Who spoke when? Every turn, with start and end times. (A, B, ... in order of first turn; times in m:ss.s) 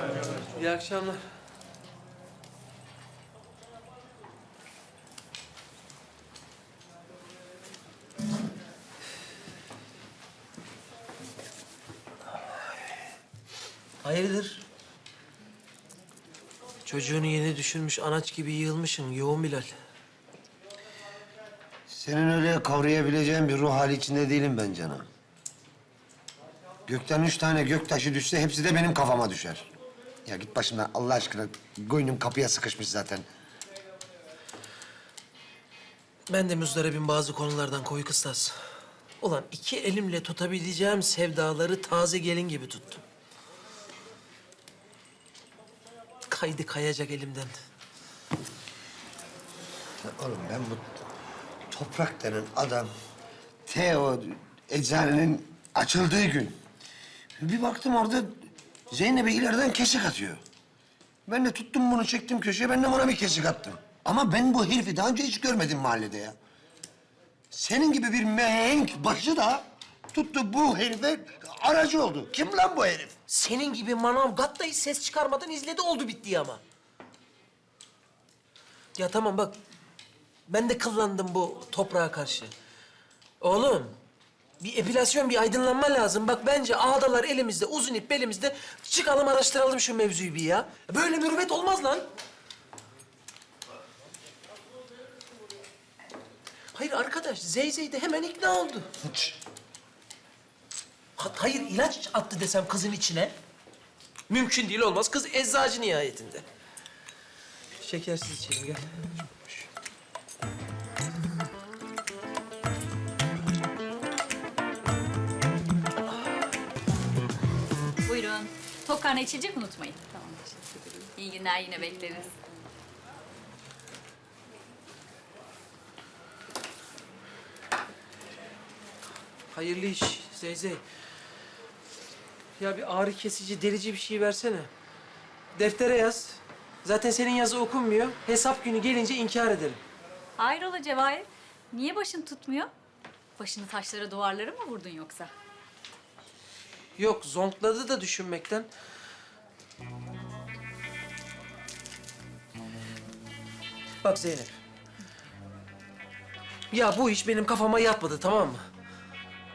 0:00.5-0:01.2 A
0:14.0-0:14.6 A
0:16.9-0:19.7 A
0:21.9-0:25.1 B
0:26.9-0:29.7 B
0:30.3-0:33.3 B
0:36.3-0:38.6 A
0:39.2-0:43.0 A
0:46.3-0:47.6 A
0:50.0-0:51.0 B
0:51.7-0:52.9 B
0:53.7-0:56.6 B
0:57.4-1:00.4 B
1:01.3-1:06.4 B
1:07.5-1:13.2 B
1:13.3-1:16.6 A
1:19.0-1:19.6 A
1:20.5-1:22.5 A
1:23.4-1:24.0 A
1:24.6-1:32.1 A
1:36.7-1:38.9 A
1:39.0-1:39.4 B
1:41.2-1:43.4 A
1:44.3-1:46.5 A
1:47.8-1:49.1 A
1:58.0-2:02.4 C
2:09.5-2:10.8 A
2:12.6-2:14.7 A
2:15.6-2:19.8 A
2:20.4-2:22.7 C
2:23.4-2:25.3 C
2:27.0-2:28.7 A
2:34.0-2:34.6 A
2:36.7-2:38.6 A